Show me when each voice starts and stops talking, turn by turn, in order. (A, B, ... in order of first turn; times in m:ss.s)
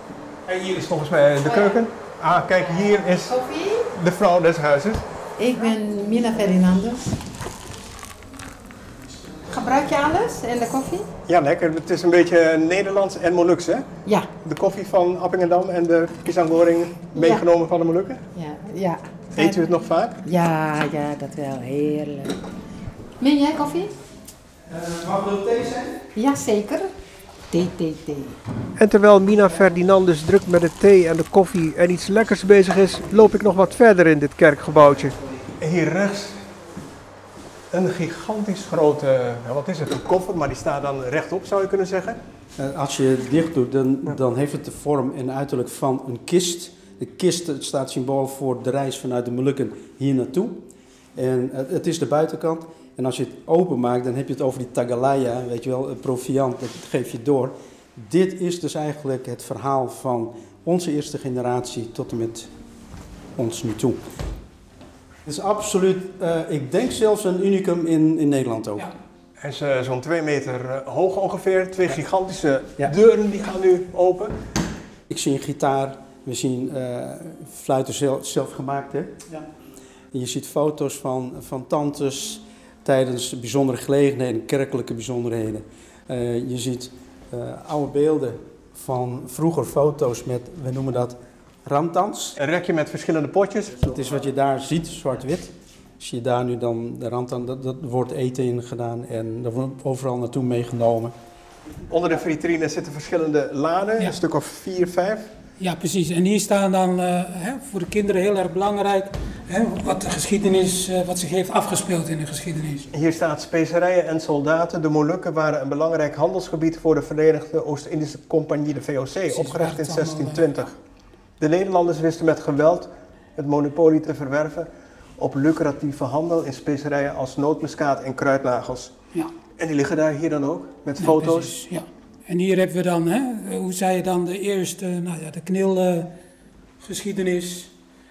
0:00.5-0:03.4 A
0:01.4-0:01.8 B
0:02.6-0:03.9 B
0:03.9-0:05.0 A
0:05.4-0:07.1 B
0:09.5-0:11.1 B
0:11.3-0:13.9 A
0:14.4-0:18.2 A
0:17.1-0:17.4 B
0:18.3-0:19.6 B
0:19.4-0:20.2 A
0:20.2-0:22.4 B
0:23.2-0:23.9 B
0:24.7-0:26.0 C
0:26.2-0:26.9 B
0:27.5-0:28.4 B
0:28.8-0:36.5 A
0:37.7-0:42.2 A
0:42.6-0:50.6 C
0:51.2-1:02.5 C
1:03.4-1:04.0 C
1:05.2-1:08.9 C
1:09.4-1:14.4 A
1:15.1-1:19.2 C
1:20.1-1:32.4 C
1:32.4-1:33.9 A
1:33.8-1:41.1 C
1:41.9-1:45.3 A
1:45.6-1:52.9 D
1:52.9-2:00.8 A
1:59.3-2:00.6 D
2:01.4-2:08.9 A
2:09.6-2:11.5 A
2:11.0-2:16.1 D
2:16.8-2:17.7 D